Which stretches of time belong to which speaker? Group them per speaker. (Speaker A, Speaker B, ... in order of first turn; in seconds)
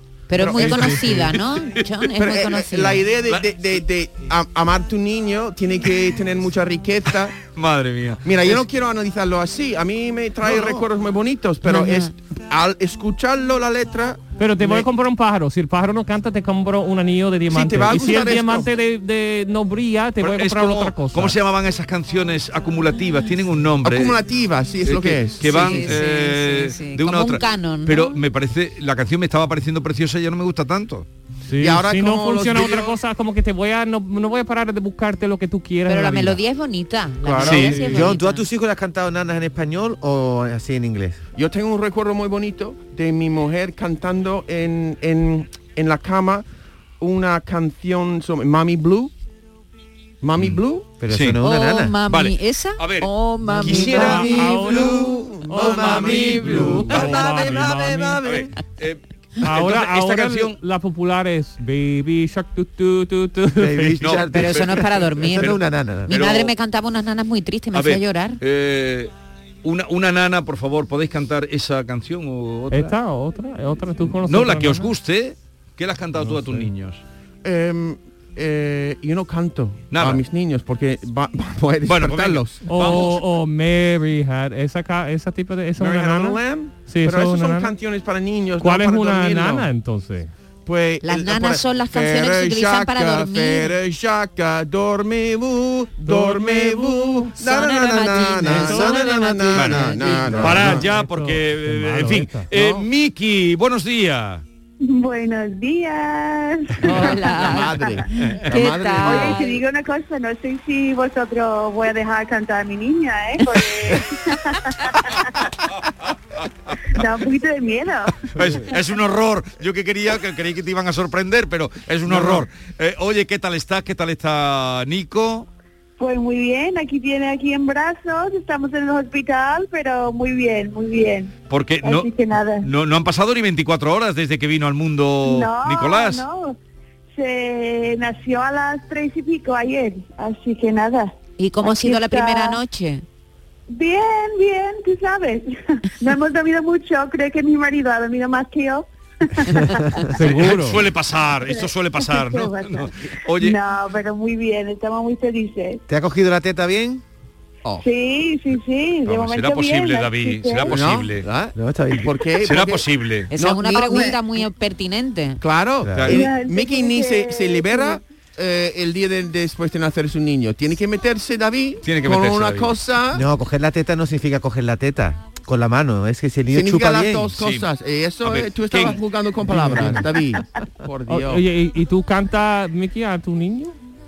Speaker A: 0.3-3.1, 11.6-12.1, 25.5-28.2, 35.9-38.4, 51.4-54.4, 64.3-65.5, 66.1-68.4, 91.0-93.8, 97.4-100.5, 106.9-109.6, 141.4-143.0, 163.3-165.4
Speaker B: 0.4-1.4, 2.1-7.4, 8.2-14.9, 17.5-18.7, 23.8-26.0, 31.6-33.0, 41.4-46.5, 47.0-49.1, 50.2-50.9, 53.7-58.4, 77.4-82.6, 85.8-89.7, 90.7-100.8, 102.5-102.9, 106.9-109.4, 122.1-122.4, 160.7-164.2, 165.4-173.2, 176.5-181.4
Speaker C: 0.6-1.3, 14.4-21.4, 31.5-36.4, 37.6-38.1, 53.6-58.2, 59.4-64.0, 72.7-74.9, 76.2-76.7, 82.7-87.7, 88.6-90.3, 96.1-97.3, 98.5-99.0, 100.4-102.5, 150.2-150.8, 179.5-180.0, 181.1-183.8
Speaker D: 7.4-8.6, 20.2-24.2, 24.8-31.1, 37.4-37.8, 50.4-51.4, 52.1-54.3, 56.9-57.2, 58.2-60.6, 64.0-66.5, 67.7-69.1, 69.6-73.0, 74.2-77.0, 79.9-80.2, 81.8-83.2, 99.5-104.4, 108.2-108.5, 116.7-117.0, 118.3-125.5, 131.5-136.3, 150.2-153.6, 159.1-161.3, 162.4-163.3, 165.9-166.2, 171.8-172.8, 177.4-177.7, 178.2-179.0
Speaker E: 37.2-41.2, 51.0-52.0, 53.7-56.9, 63.6-66.1, 98.5-99.0, 100.1-100.5, 155.9-157.0, 161.6-162.1, 165.8-166.1, 173.1-177.3
Speaker F: 104.8-107.4, 109.0-115.4, 116.9-118.3, 126.0-131.3, 131.8-132.7, 135.2-136.6, 137.2-142.6, 143.7-149.9, 151.4-155.8, 157.8-160.8, 166.1-168.0